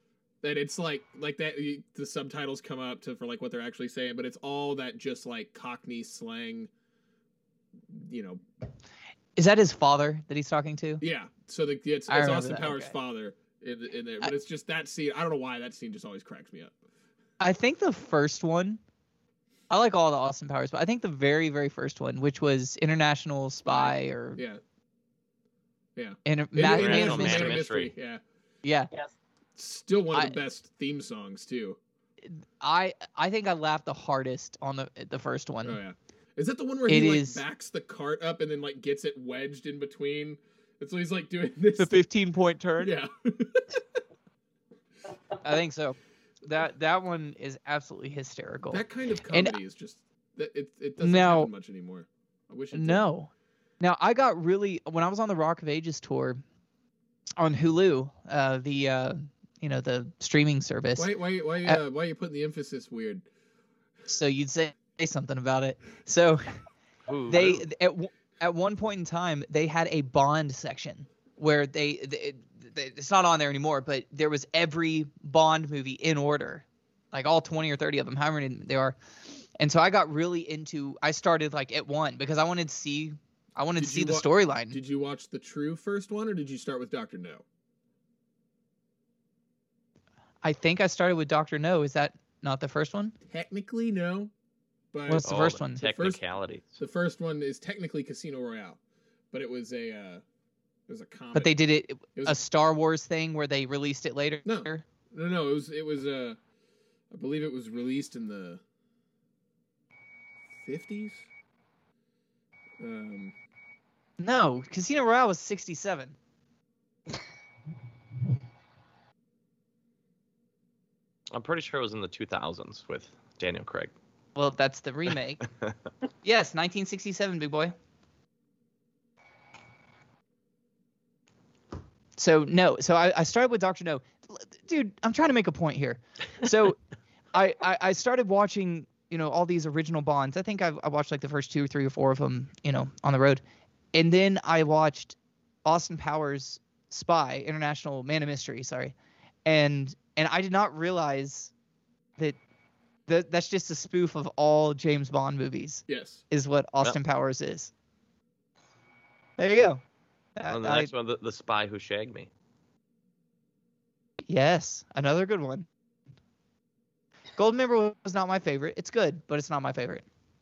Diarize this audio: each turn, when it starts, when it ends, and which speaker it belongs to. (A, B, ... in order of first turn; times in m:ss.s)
0:00.4-0:06.7 A
0:07.9-0:08.4 A
0:09.4-0:11.0 B
0:11.0-0:16.8 A
0:12.1-0:12.9 B
0:17.4-0:18.8 B
0:19.7-0:24.4 B
0:23.7-0:24.6 A
0:26.0-0:28.2 A
0:26.2-0:27.6 B
0:26.7-0:27.9 C
0:28.6-0:28.9 B
0:29.6-0:31.8 A
0:30.1-0:30.4 B
0:32.2-0:35.8 B
0:35.6-0:42.0 A
0:36.9-0:37.4 B
0:41.8-0:42.9 B
0:42.8-0:43.8 A
0:45.4-0:49.6 B
0:48.7-0:53.0 A
0:51.0-0:51.5 B
0:52.7-0:56.4 B
0:57.4-1:01.1 B
1:01.0-1:03.2 A
1:04.1-1:06.4 B
1:07.1-1:07.7 C
1:07.3-1:19.0 B
1:19.6-1:24.8 B
1:23.8-1:27.4 A
1:30.4-1:33.1 B
1:33.3-1:34.3 A
1:34.9-1:35.3 A
1:35.1-1:35.8 B
1:35.2-1:36.8 C
1:35.8-1:36.2 A
1:36.8-1:38.8 A
1:39.3-1:40.2 A
1:40.9-1:41.5 A
1:41.3-1:44.8 B
1:44.4-1:46.4 A
1:47.1-1:48.6 A
1:50.6-1:51.3 A
1:52.8-1:53.3 A
1:54.2-1:56.1 B
2:01.3-2:03.9 C
2:04.3-2:05.4 B
2:06.2-2:07.7 B
2:12.2-2:16.8 B
2:17.3-2:23.4 B
2:23.9-2:28.9 B
2:29.4-2:31.5 B
2:33.1-2:37.7 B
2:35.9-2:36.2 A
2:39.4-2:39.8 B
2:40.4-2:40.9 B
2:40.5-2:42.3 C
2:44.3-2:45.7 B
2:47.4-2:50.0 B